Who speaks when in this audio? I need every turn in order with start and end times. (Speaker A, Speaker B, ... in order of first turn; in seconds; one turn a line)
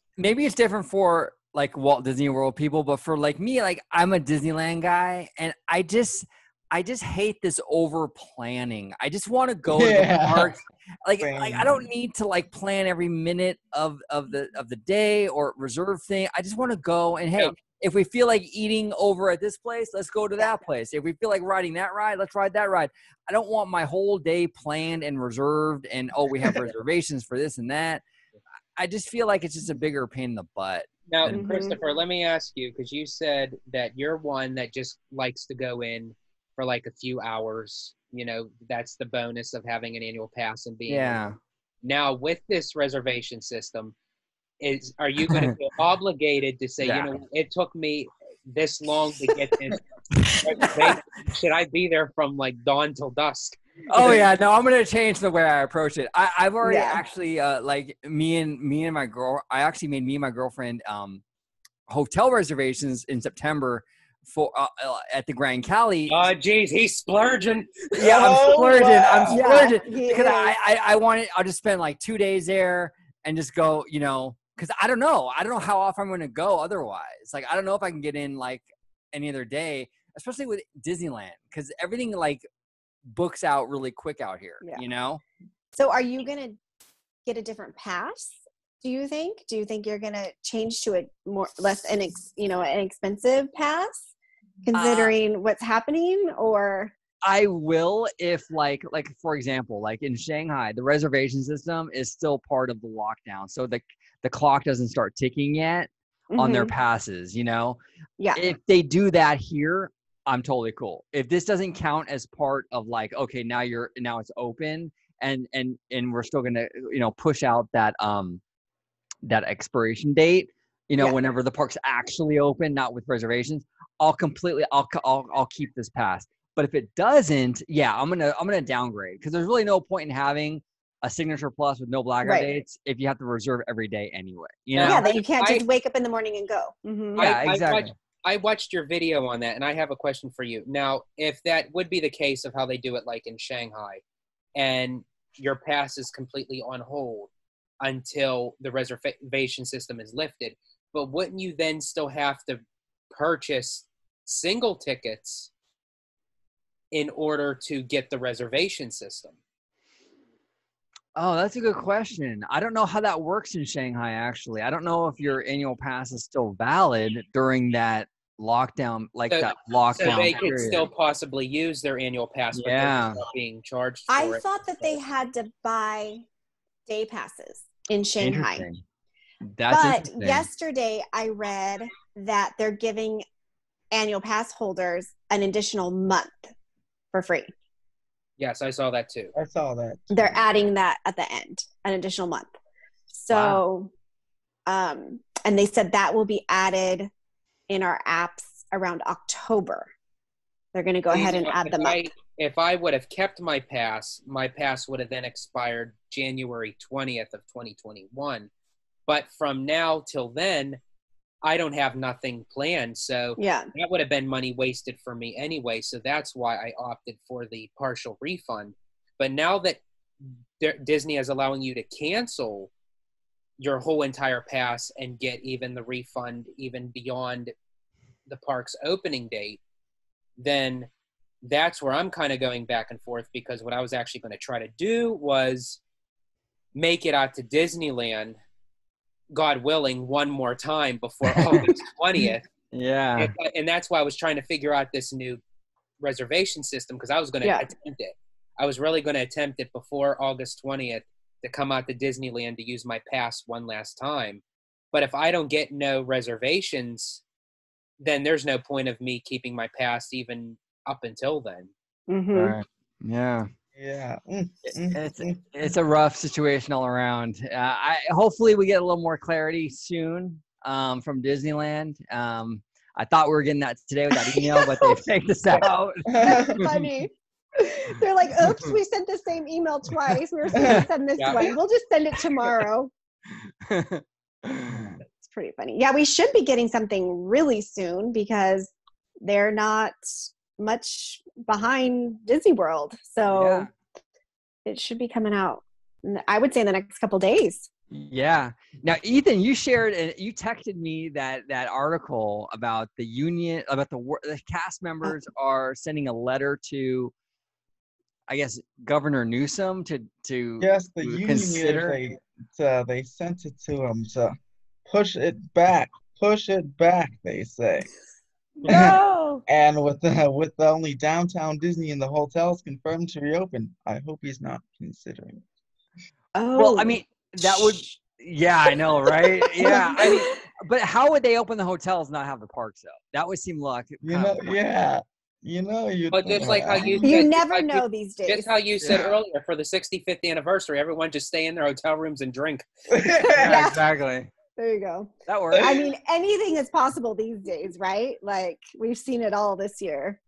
Speaker A: 0.2-28.0
Speaker B: 9.7-10.5
Speaker B: 11.2-11.9
Speaker A: 28.8-31.6
Speaker C: 31.1-41.2
Speaker D: 31.3-31.8
Speaker A: 40.9-41.4
Speaker C: 41.8-43.9
Speaker C: 44.6-54.2
Speaker A: 46.8-47.2
Speaker A: 50.2-51.0
Speaker A: 53.9-61.2
Speaker D: 56.6-57.0
Speaker A: 61.9-66.2
Speaker C: 66.1-68.6
Speaker A: 68.0-82.4
Speaker B: 68.0-69.8
Speaker D: 69.3-70.5
Speaker A: 83.1-85.2
Speaker D: 85.7-86.6
Speaker D: 87.2-94.1
Speaker D: 94.7-96.9
Speaker A: 94.7-95.1
Speaker A: 97.2-107.8
Speaker D: 106.3-106.7
Speaker D: 108.2-108.5
Speaker A: 108.3-118.4
Speaker A: 119.2-135.0
Speaker D: 132.2-132.5
Speaker C: 134.7-135.6
Speaker D: 134.8-137.2
Speaker C: 137.2-144.0
Speaker A: 137.2-137.9
Speaker C: 144.6-155.5
Speaker C: 156.9-159.4
Speaker A: 161.2-170.9
Speaker C: 169.3-175.0
Speaker A: 172.5-173.2
Speaker D: 174.1-176.2
Speaker D: 176.9-178.7
Speaker A: 178.2-178.8
Speaker A: 179.4-180.5
Speaker D: 179.7-183.2
Speaker D: 183.9-186.5
Speaker D: 187.1-187.5
Speaker C: 188.4-189.3
Speaker B: 189.3-190.4
Speaker D: 190.1-192.5
Speaker D: 193.1-193.9
Speaker A: 193.3-193.6
Speaker D: 194.7-197.1
Speaker D: 197.7-199.9
Speaker D: 200.7-202.1
Speaker C: 201.1-208.5
Speaker C: 209.1-210.8
Speaker C: 211.4-219.8
Speaker D: 213.4-213.7
Speaker C: 220.6-222.7
Speaker C: 223.6-227.5
Speaker C: 228.3-229.6
Speaker C: 230.4-230.9
Speaker C: 231.4-235.8
Speaker C: 236.7-238.3
Speaker C: 239.3-242.4
Speaker A: 241.2-241.7
Speaker A: 242.7-243.3
Speaker C: 243.2-245.4
Speaker C: 246.0-257.2
Speaker D: 247.4-247.7
Speaker C: 258.0-261.7
Speaker D: 262.1-262.6
Speaker A: 262.3-263.5
Speaker B: 263.7-265.7
Speaker A: 264.9-276.8
Speaker D: 274.4-275.0
Speaker B: 276.1-276.8
Speaker D: 276.2-282.9
Speaker A: 278.5-278.7
Speaker B: 280.5-280.9
Speaker A: 280.6-280.8
Speaker C: 281.2-281.4
Speaker A: 283.6-284.9
Speaker B: 284.7-285.0
Speaker D: 285.2-293.7
Speaker A: 293.3-293.7
Speaker D: 294.6-297.7
Speaker A: 297.9-307.1
Speaker A: 308.3-311.9
Speaker B: 310.6-314.3
Speaker B: 314.9-317.9
Speaker D: 318.6-319.4
Speaker B: 318.7-325.4
Speaker D: 326.3-326.9
Speaker A: 326.6-334.6
Speaker D: 329.6-330.4
Speaker B: 334.0-337.2
Speaker C: 336.1-342.7
Speaker D: 337.0-338.5
Speaker A: 338.8-339.1
Speaker B: 342.9-343.7
Speaker A: 343.3-344.3
Speaker D: 343.4-343.8
Speaker D: 344.6-350.2
Speaker A: 345.3-345.7
Speaker B: 345.5-345.8